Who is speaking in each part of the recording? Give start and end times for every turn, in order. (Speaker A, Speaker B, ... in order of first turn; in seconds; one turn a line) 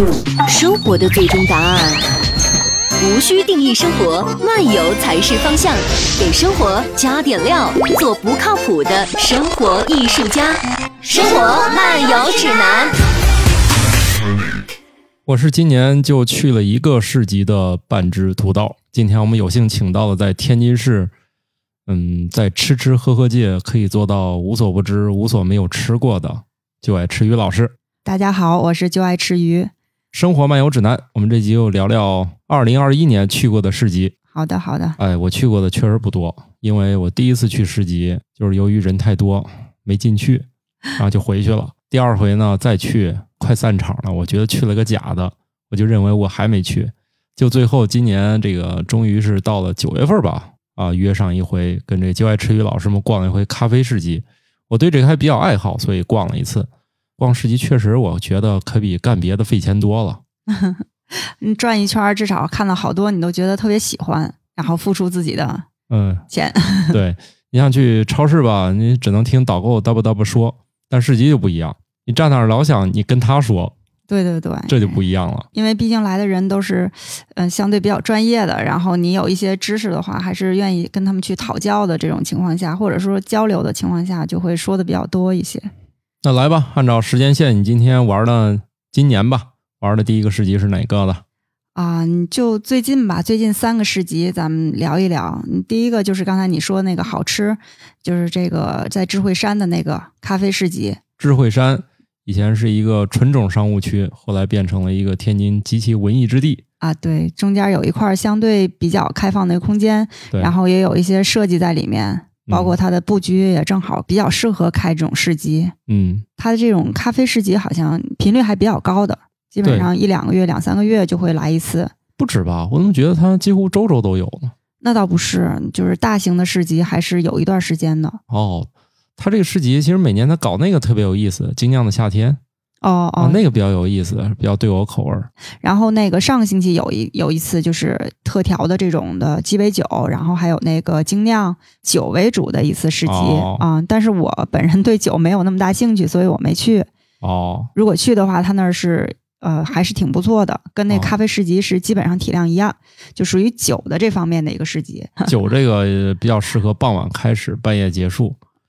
Speaker A: 0.4-2.0
Speaker A: 3.0-13.0
Speaker B: 15.2-21.1
Speaker B: 21.9-27.7
Speaker C: 28.0-29.7
Speaker B: 30.1-34.1
Speaker C: 34.3-35.0
Speaker B: 35.0-60.2
Speaker C: 60.5-65.7
Speaker B: 65.9-66.2
Speaker C: 66.3-67.0
Speaker B: 66.9-73.7
Speaker C: 74.1-75.0
Speaker B: 74.7-75.5
Speaker C: 75.5-85.7
Speaker B: 86.2-91.2
Speaker C: 91.7-101.0
Speaker B: 101.2-106.6
Speaker C: 106.8-115.7
Speaker B: 112.5-112.8
Speaker B: 115.9-116.2
Speaker C: 116.4-121.9
Speaker B: 119.6-119.9
Speaker B: 122.2-124.5
Speaker C: 124.8-128.2
Speaker B: 128.3-132.4
Speaker C: 132.8-133.4
Speaker B: 133.2-135.3
Speaker C: 135.6-146.9
Speaker B: 143.0-143.7
Speaker B: 147.2-147.7
Speaker C: 147.7-155.3
Speaker B: 150.9-151.1
Speaker B: 155.2-158.4